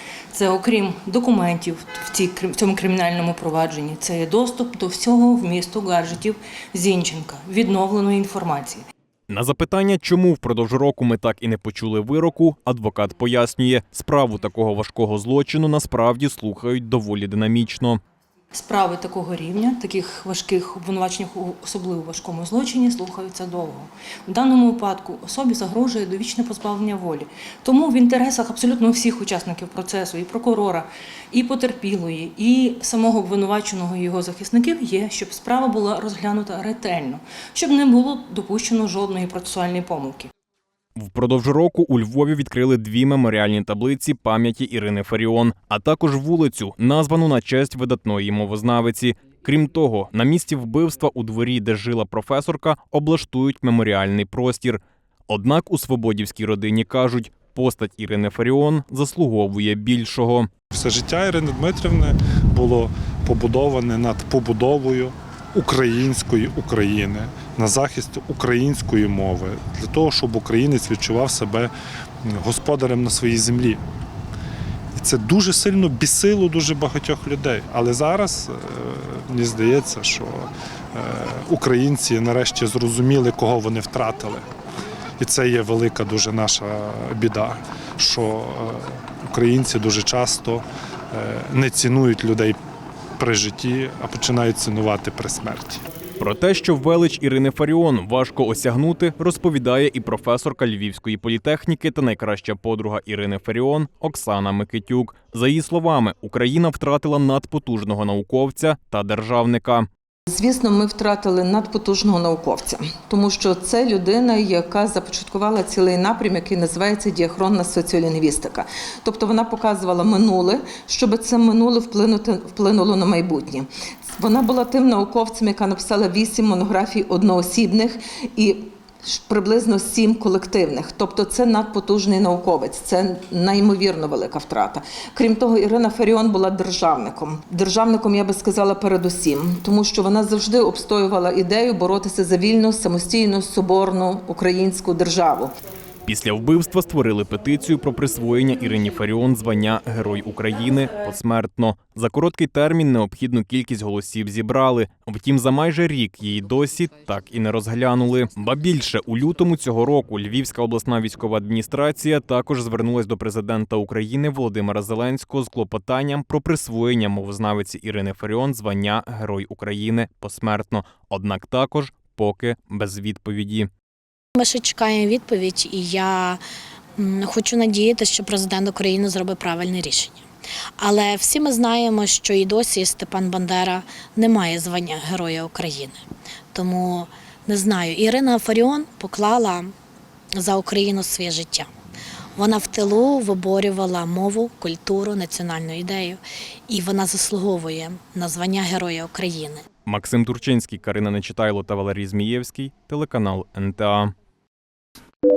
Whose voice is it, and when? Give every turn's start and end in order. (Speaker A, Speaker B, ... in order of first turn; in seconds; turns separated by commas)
Speaker A: 0.3-8.8, Speaker B: 9.3-18.0, Speaker A: 18.5-40.3, Speaker B: 41.0-60.5, Speaker C: 60.7-71.7, Speaker C: 72.3-73.8, Speaker C: 75.0-84.5, Speaker C: 85.2-92.6, Speaker C: 93.2-95.8, Speaker B: 96.2-109.9, Speaker D: 110.3-145.5, Speaker B: 146.1-173.7, Speaker E: 174.3-176.4, Speaker E: 177.0-180.2, Speaker E: 180.8-186.0, Speaker E: 186.5-189.7, Speaker E: 190.4-191.7, Speaker E: 192.3-199.6, Speaker B: 199.8-204.1